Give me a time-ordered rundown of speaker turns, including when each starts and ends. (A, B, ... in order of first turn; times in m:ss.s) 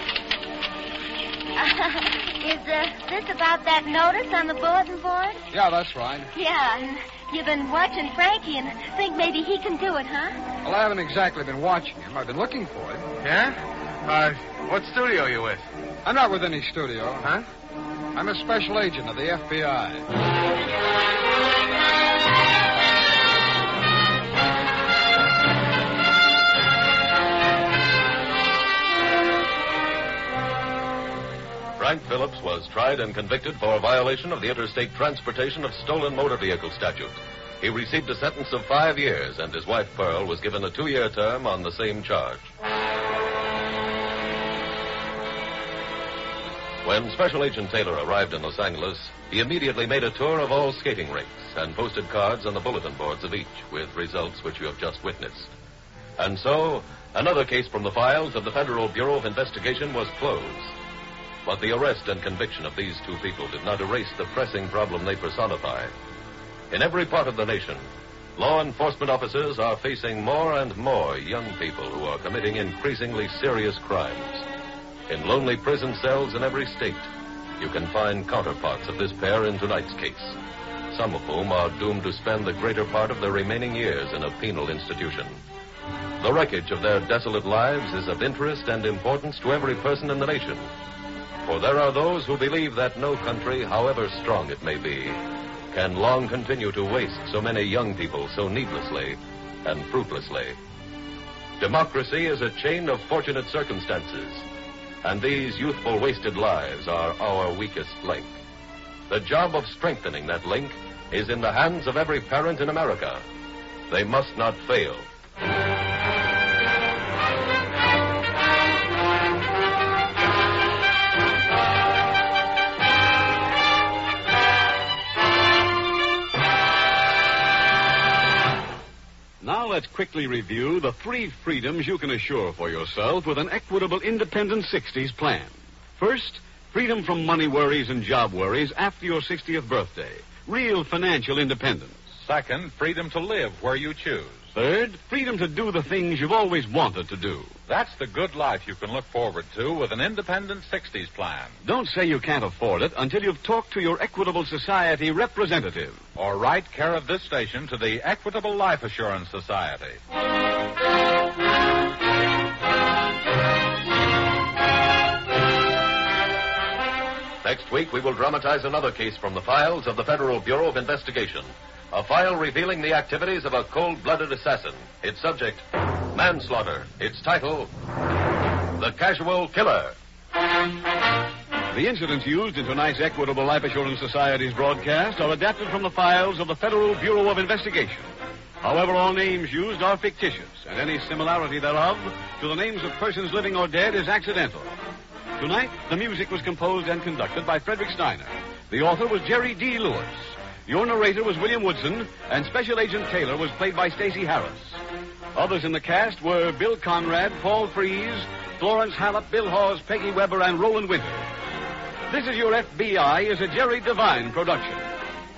0:01.6-0:05.4 A
0:05.5-0:06.3 B
0:06.3-0:10.4 A
0:10.6-0:13.1 B
0:13.2-0:15.6 C
0:16.0-0:17.3 B
0:18.1-0:20.0 B
0:31.8-0:42.5 D
0:46.8-0:55.5 D
0:56.2-1:00.7 D
1:01.4-1:05.9 D
1:06.7-1:07.8 D
1:08.4-1:14.4 D
1:15.1-1:20.4 D
1:20.9-1:25.4 D
1:26.2-1:30.7 D
1:31.4-1:35.2 D
1:35.7-1:40.6 D
1:41.6-1:44.4 D
1:45.0-1:48.3 D
1:49.1-1:53.2 D
1:53.9-1:55.1 D
2:09.4-2:22.1 E
2:22.2-2:24.5 F
2:24.5-2:27.5 E
2:27.7-2:31.6 F
2:31.6-2:36.0 E
2:36.1-2:40.0 F
2:47.4-2:57.7 D
2:58.7-2:59.9 D
3:01.7-3:08.1 E
3:08.6-3:14.7 E
3:15.4-3:24.8 E
3:25.3-3:31.2 E
3:32.1-3:34.9 E